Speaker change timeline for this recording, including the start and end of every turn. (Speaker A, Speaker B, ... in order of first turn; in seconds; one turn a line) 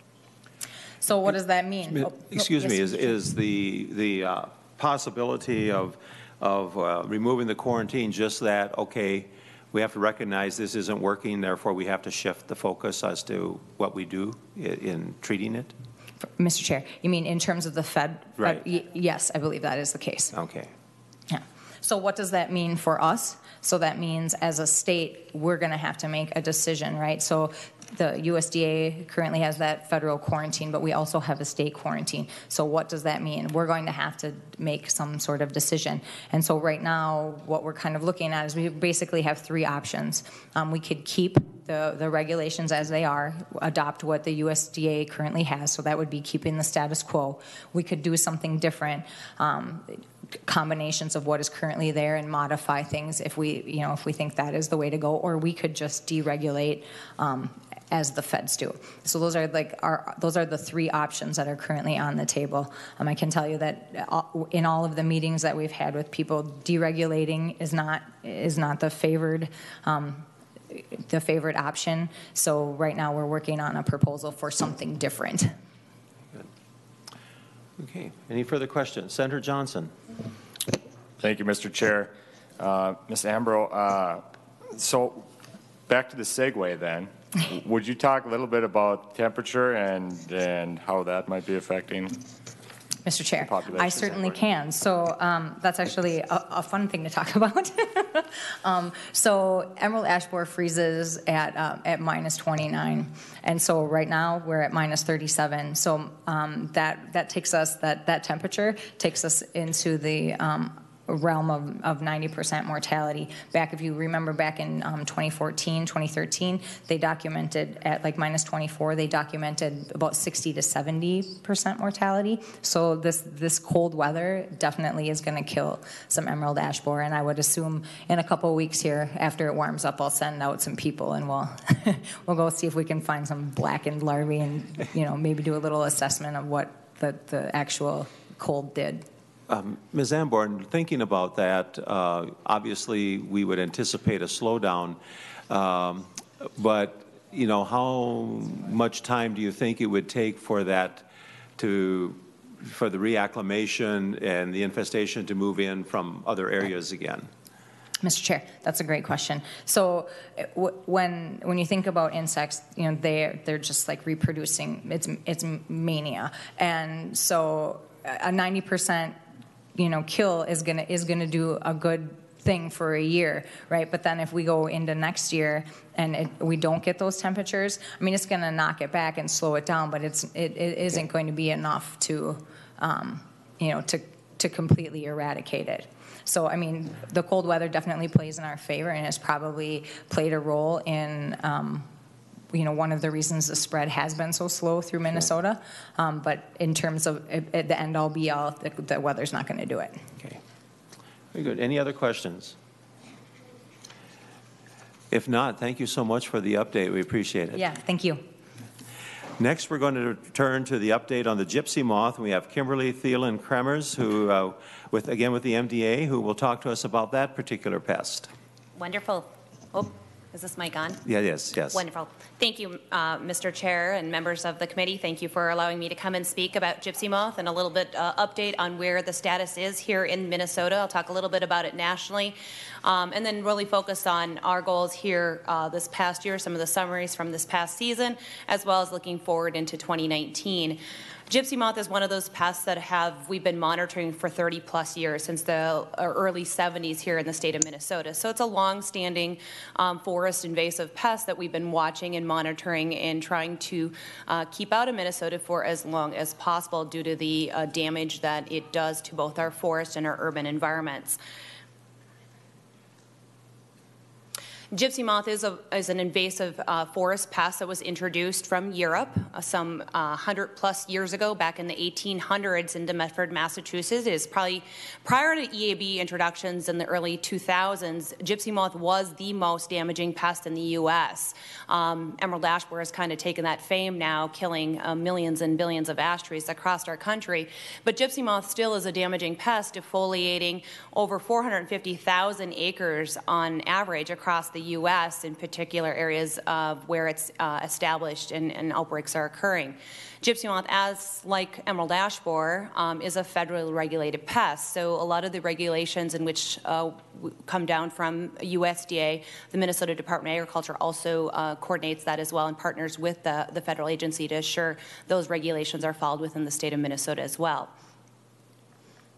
Speaker A: 1.0-3.1
Speaker B: 1.9-15.7
Speaker A: 16.2-20.3
Speaker B: 20.3-20.7
Speaker A: 21.3-75.5
Speaker B: 77.8-79.9
Speaker C: 81.2-85.3
Speaker C: 85.9-92.2
Speaker A: 93.0-139.1
Speaker C: 93.4-94.4
Speaker B: 139.5-145.0
Speaker B: 145.5-151.1
Speaker B: 151.6-157.3
Speaker A: 158.0-169.2
Speaker A: 169.8-191.9
Speaker A: 192.5-200.0
Speaker B: 201.3-202.6
Speaker B: 205.1-207.6
Speaker A: 207.5-208.2
Speaker B: 209.4-218.3
Speaker D: 218.8-221.0
Speaker B: 221.1-221.8
Speaker D: 221.7-261.2
Speaker D: 264.7-317.7